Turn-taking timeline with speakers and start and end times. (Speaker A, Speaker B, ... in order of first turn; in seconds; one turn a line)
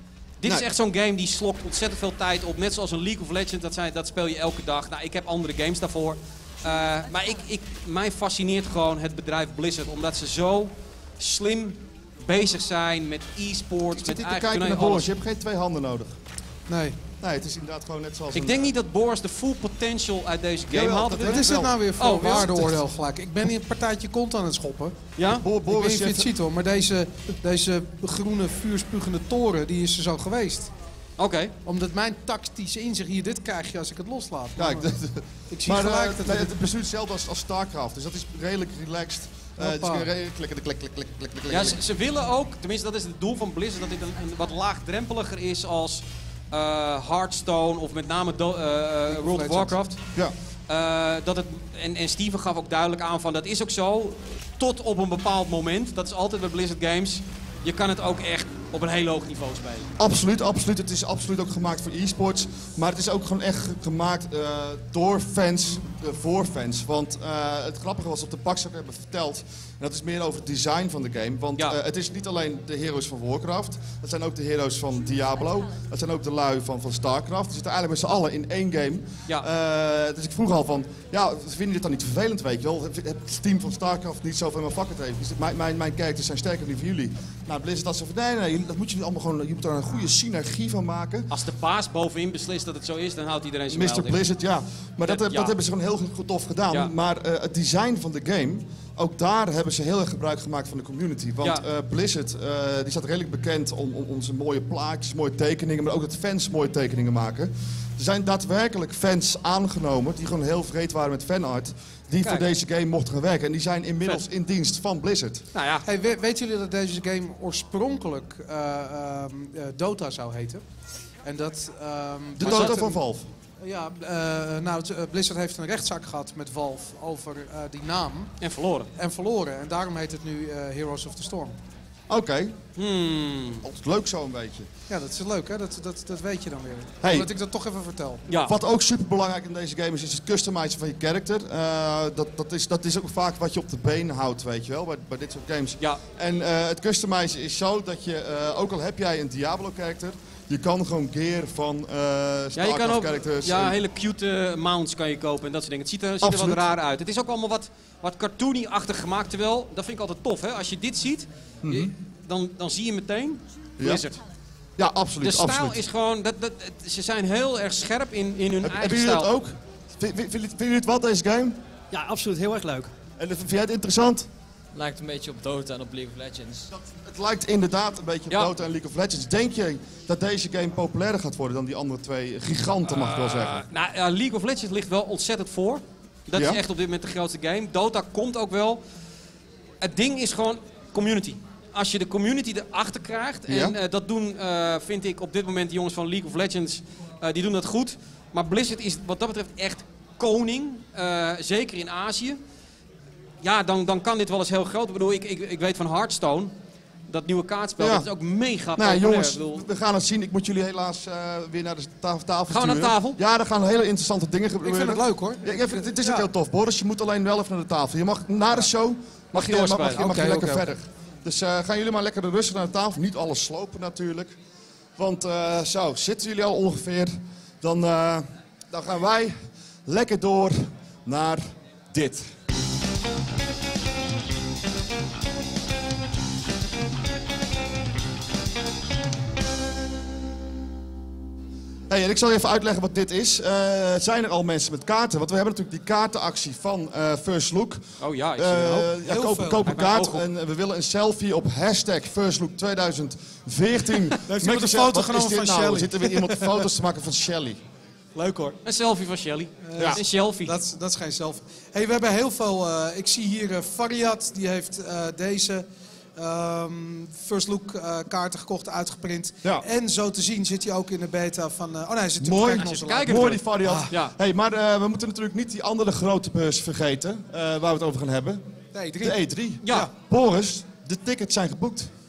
Speaker A: 0.4-15.1
Speaker B: 13.9-16.2
Speaker C: 16.7-17.0
Speaker B: 17.2-18.7
Speaker A: 18.3-21.5
Speaker B: 20.7-21.7
Speaker C: 21.2-25.0
Speaker A: 22.0-22.7
Speaker A: 25.2-25.4
Speaker B: 25.3-26.3
Speaker C: 25.7-30.7
Speaker A: 31.2-31.5
Speaker C: 31.6-34.9
Speaker B: 34.6-41.8
Speaker C: 35.5-36.5
Speaker C: 39.6-40.1
Speaker A: 41.5-50.0
Speaker C: 49.1-49.8
Speaker A: 50.7-59.9
Speaker B: 60.0-91.3
Speaker A: 91.3-94.2
Speaker B: 93.7-115.5
Speaker A: 95.1-95.5
Speaker A: 112.2-112.5
Speaker A: 115.5-115.8
Speaker C: 115.9-120.6
Speaker C: 121.2-123.0
Speaker B: 122.4-123.3
Speaker A: 122.4-122.8
Speaker C: 123.6-128.3
Speaker A: 128.4-128.9
Speaker C: 129.0-131.6
Speaker B: 132.1-132.6
Speaker A: 132.8-133.6
Speaker B: 133.6-134.7
Speaker C: 134.9-138.2
Speaker B: 137.0-137.3
Speaker A: 138.3-138.5
Speaker B: 138.4-153.8
Speaker A: 152.6-164.2
Speaker B: 156.2-156.6
Speaker B: 161.6-161.9
Speaker B: 163.8-164.1
Speaker B: 164.8-165.8
Speaker A: 165.2-169.3
Speaker B: 168.6-171.6
Speaker D: 171.9-172.9
Speaker B: 173.2-174.3
Speaker D: 174.7-176.7
Speaker B: 176.7-183.6
Speaker A: 182.9-188.8
Speaker B: 186.3-186.6
Speaker A: 189.8-202.4
Speaker B: 193.5-193.8
Speaker A: 203.4-206.5
Speaker A: 207.1-209.7
Speaker B: 207.8-208.1
Speaker B: 208.8-224.3
Speaker A: 212.5-213.2
Speaker C: 214.6-216.3
Speaker A: 219.3-220.0
Speaker C: 219.8-220.7
Speaker B: 225.0-232.3
Speaker B: 241.9-247.8
Speaker A: 248.0-249.0
Speaker B: 248.3-257.6
Speaker C: 249.1-249.7
Speaker A: 249.7-250.2
Speaker C: 254.3-256.7
Speaker C: 258.1-258.6
Speaker A: 258.6-260.6
Speaker C: 259.6-265.6
Speaker C: 266.2-273.9
Speaker B: 272.2-278.4
Speaker A: 272.6-274.1
Speaker C: 278.7-279.9
Speaker B: 279.0-281.9
Speaker A: 279.6-279.9